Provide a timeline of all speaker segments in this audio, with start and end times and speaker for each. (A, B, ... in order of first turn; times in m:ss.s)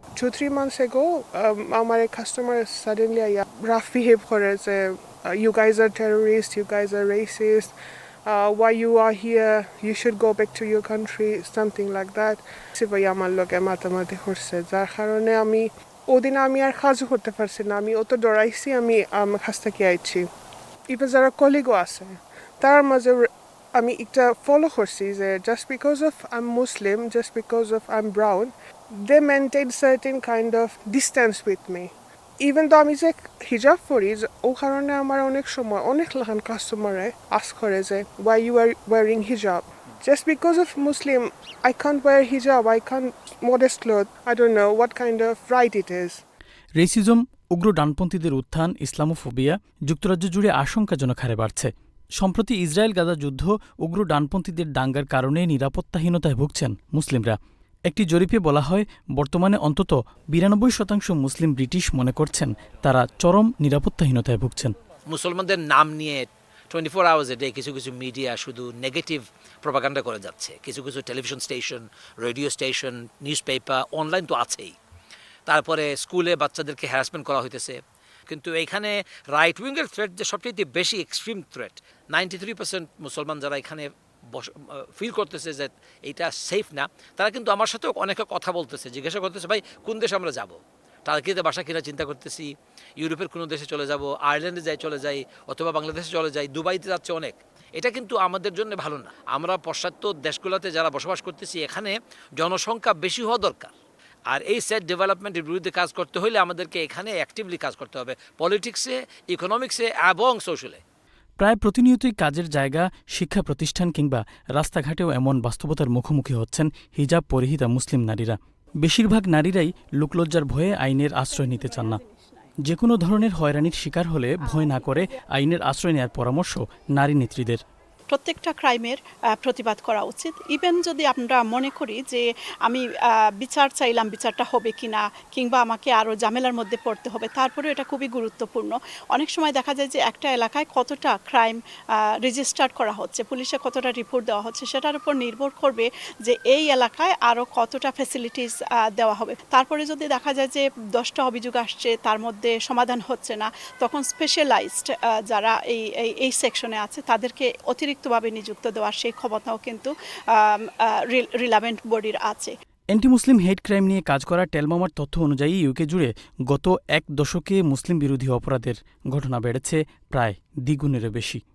0:00.2-0:07.7 A
0:08.2-0:20.3 A
0:20.9-0:46.2 A
0:46.8-0:57.4 B
0:57.9-1:04.7 B
1:05.1-1:14.7 C
1:15.5-1:17.8 C
1:18.3-1:43.7 C
1:44.3-1:50.8 C
1:51.4-2:02.0 B
2:01.3-2:02.5 D
2:02.6-2:07.6 B
2:04.5-2:05.0 D
2:08.1-2:21.6 D
2:22.2-2:42.5 D
2:42.9-2:51.4 B